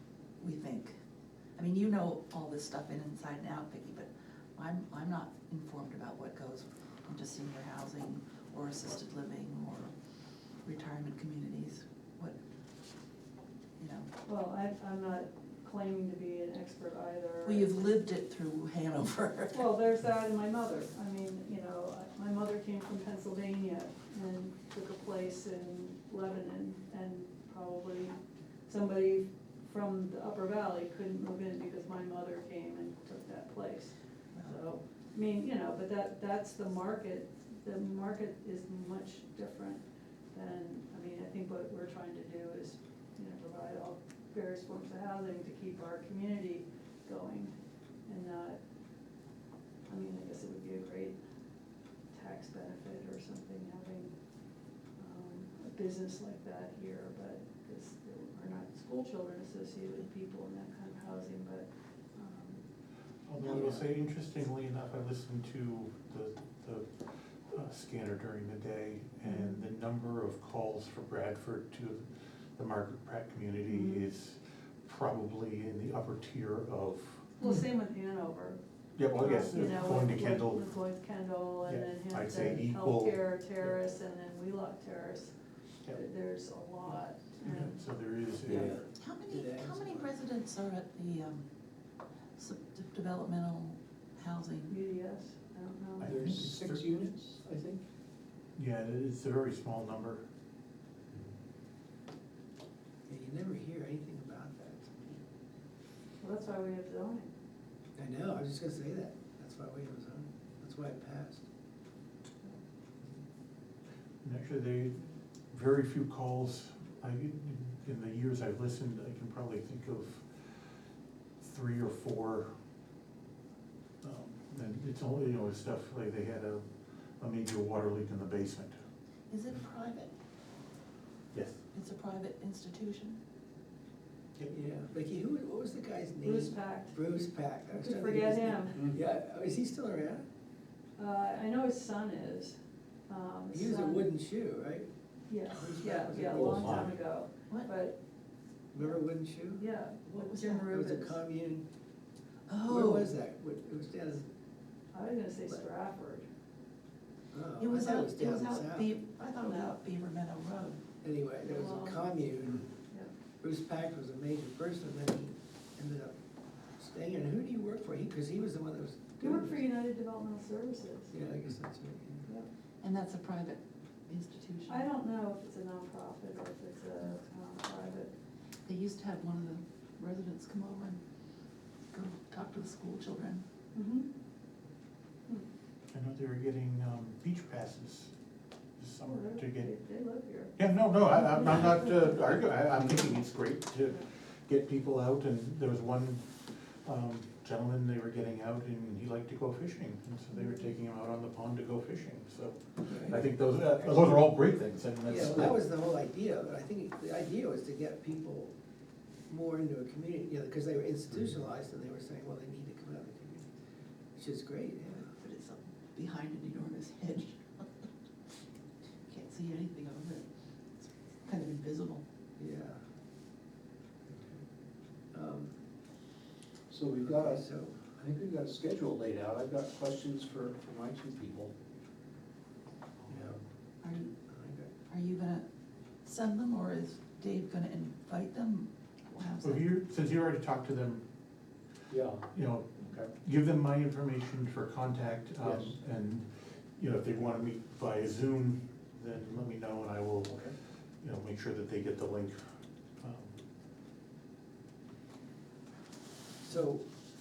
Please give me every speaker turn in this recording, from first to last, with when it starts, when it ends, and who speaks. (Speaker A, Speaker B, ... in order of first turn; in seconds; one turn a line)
Speaker A: 0.4-1.0
Speaker A: 1.6-9.9
Speaker A: 10.6-12.4
Speaker A: 13.8-14.1
Speaker B: 14.3-17.7
Speaker A: 17.4-19.7
Speaker B: 19.5-48.6
Speaker A: 34.3-34.6
Speaker B: 49.9-51.2
Speaker B: 52.1-54.2
Speaker B: 55.0-62.6
Speaker C: 63.2-77.4
Speaker A: 63.4-63.7
Speaker B: 69.2-69.6
Speaker B: 73.7-74.0
Speaker B: 77.4-78.6
Speaker C: 79.0-80.7
Speaker B: 79.2-85.3
Speaker C: 81.7-83.8
Speaker B: 85.9-87.8
Speaker C: 87.4-88.9
Speaker D: 88.5-90.1
Speaker A: 89.0-91.5
Speaker A: 92.4-94.8
Speaker B: 94.7-96.3
Speaker C: 96.0-96.9
Speaker E: 96.0-97.8
Speaker C: 98.6-100.2
Speaker D: 103.1-105.2
Speaker B: 106.2-107.3
Speaker D: 108.0-111.4
Speaker C: 114.2-115.0
Speaker C: 115.5-120.6
Speaker C: 121.4-122.5
Speaker C: 124.0-126.7
Speaker C: 127.2-128.8
Speaker A: 129.3-130.1
Speaker C: 131.3-131.6
Speaker A: 131.7-133.2
Speaker D: 134.4-140.2
Speaker B: 136.2-137.0
Speaker B: 137.7-138.8
Speaker B: 141.0-144.1
Speaker D: 143.5-144.9
Speaker B: 145.3-148.0
Speaker D: 145.5-146.9
Speaker C: 146.3-146.9
Speaker D: 148.7-149.6
Speaker B: 148.8-149.0
Speaker B: 149.6-151.2
Speaker A: 150.1-150.7
Speaker D: 150.6-151.7
Speaker A: 152.5-153.1
Speaker D: 152.7-154.3
Speaker B: 154.9-156.3
Speaker D: 157.3-158.9
Speaker A: 157.6-160.8
Speaker D: 161.0-162.7
Speaker B: 161.4-162.1
Speaker D: 163.4-166.2
Speaker D: 166.8-169.6
Speaker B: 169.2-171.2
Speaker D: 171.1-172.3
Speaker A: 172.8-174.9
Speaker B: 174.7-178.1
Speaker A: 178.7-181.0
Speaker A: 181.9-183.4
Speaker B: 183.7-184.1
Speaker C: 185.9-188.1
Speaker C: 188.8-189.7
Speaker B: 189.1-190.6
Speaker C: 190.6-205.6
Speaker B: 200.3-200.7
Speaker D: 202.9-203.2
Speaker D: 205.1-208.5
Speaker D: 209.3-213.5
Speaker D: 214.2-215.1
Speaker A: 215.0-217.7
Speaker A: 219.1-220.3
Speaker A: 220.8-222.0
Speaker D: 222.4-222.8
Speaker D: 224.1-224.4
Speaker D: 225.1-225.5
Speaker E: 226.7-231.5
Speaker D: 227.0-228.0
Speaker D: 233.1-233.4
Speaker A: 233.8-234.1
Speaker D: 234.3-234.7
Speaker A: 234.9-235.4
Speaker A: 236.1-239.6
Speaker C: 239.4-241.1
Speaker E: 241.9-242.3
Speaker C: 242.3-253.4
Speaker E: 245.4-245.7
Speaker E: 250.3-250.5
Speaker D: 256.4-256.8